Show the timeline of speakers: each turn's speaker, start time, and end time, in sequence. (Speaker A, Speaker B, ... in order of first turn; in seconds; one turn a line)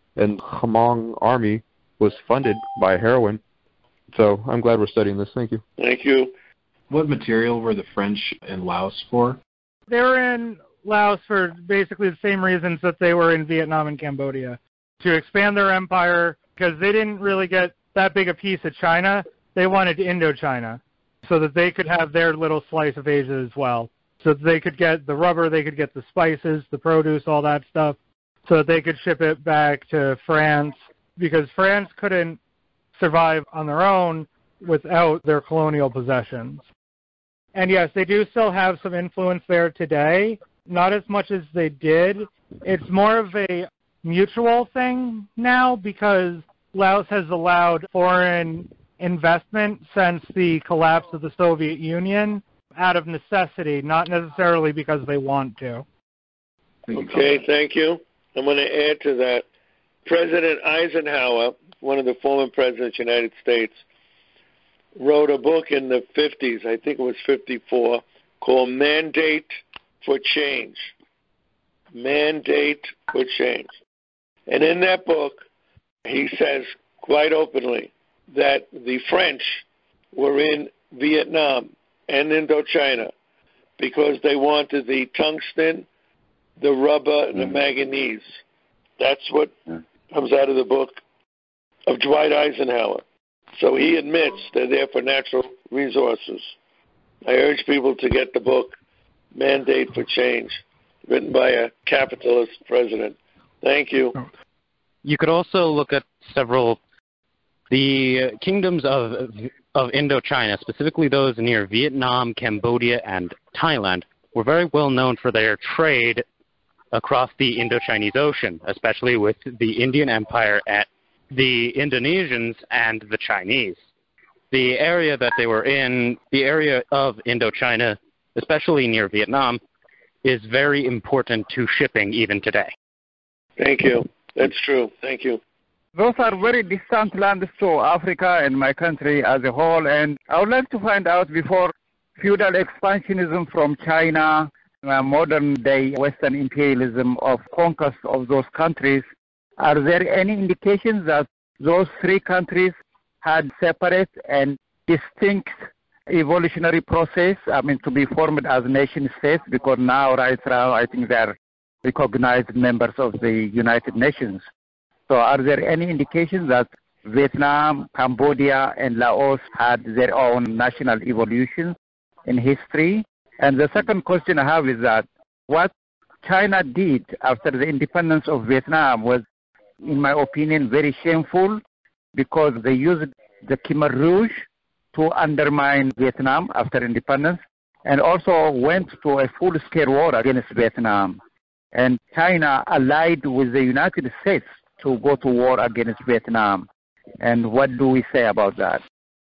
Speaker A: 0.1-3.4
Speaker A: 4.1-5.6
Speaker B: 5.8-6.3
Speaker C: 6.9-9.4
Speaker D: 9.9-32.4
Speaker D: 32.9-36.6
Speaker D: 37.5-55.9
Speaker B: 56.9-59.4
Speaker B: 60.0-63.8
Speaker B: 65.0-70.9
Speaker B: 71.9-73.7
Speaker B: 74.5-75.4
Speaker B: 76.0-83.1
Speaker B: 83.8-85.8
Speaker B: 86.6-88.4
Speaker B: 89.0-89.5
Speaker B: 90.1-91.0
Speaker B: 91.9-93.0
Speaker B: 93.5-96.5
Speaker B: 97.2-98.7
Speaker B: 99.3-104.1
Speaker E: 105.0-106.8
Speaker E: 107.7-116.2
Speaker E: 116.9-123.8
Speaker E: 124.5-129.6
Speaker E: 130.2-132.7
Speaker B: 133.6-135.4
Speaker F: 135.9-149.1
Speaker F: 149.6-155.5
Speaker F: 156.1-164.4
Speaker F: 165.1-175.7
Speaker F: 176.2-179.2
Speaker F: 179.8-181.6
Speaker F: 182.1-191.2
Speaker F: 191.7-196.7
Speaker F: 197.2-198.8